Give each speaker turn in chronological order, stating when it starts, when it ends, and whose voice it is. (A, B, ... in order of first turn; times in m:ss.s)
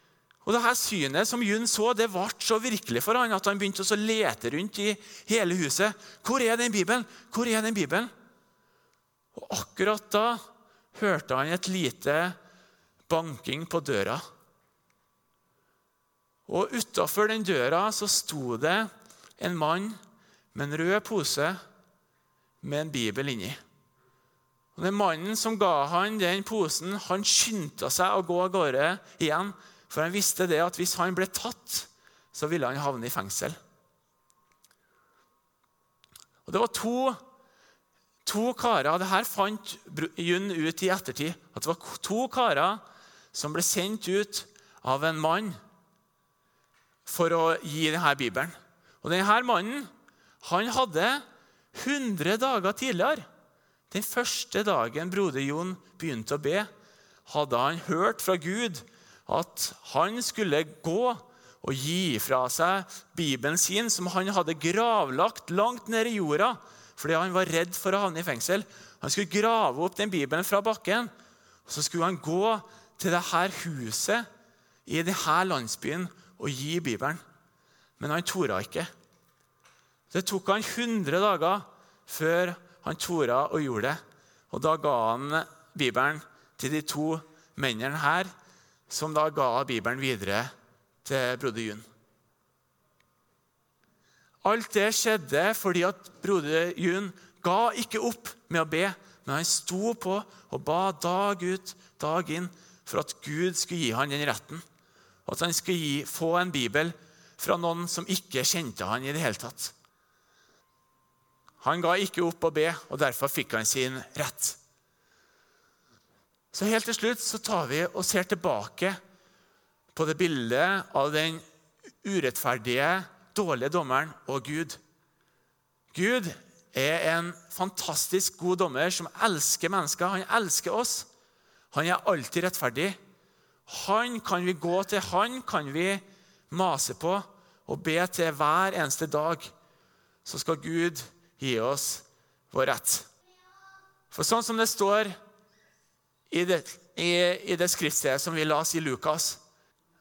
0:00.4-0:08.1 A
0:09.3-0:10.4 A
0:10.9-0:12.4 A
0:13.1-0:14.2 A
0:16.5-0:20.0 A
0:20.5-0:21.6 A
0:22.6-0:23.6 A
0:24.7-0:33.6 A
0:36.4-0:37.2 A
0:38.2-0:42.8 A
0:43.3-0:45.6 A
0:47.0-0:49.9 A
0:50.4-0:53.2 A
0:53.9-0:56.7 A
0:57.2-1:11.1 A
1:11.7-1:14.2 A
1:14.8-1:17.2 A
1:18.0-1:18.9 A
1:20.1-1:24.0 A
1:24.5-1:28.3 A
1:28.9-1:30.5 A
1:31.0-1:31.8 A
1:34.4-1:44.6 A
1:45.2-1:49.7 A
1:51.6-1:54.6 A
1:56.5-1:59.0 A
1:59.9-2:01.4 A
2:02.0-2:04.8 A
2:05.9-2:11.1 A
2:11.7-2:13.0 A
2:13.7-2:19.5 A
2:20.2-2:23.1 A
2:24.1-2:25.2 A
2:26.3-2:29.4 A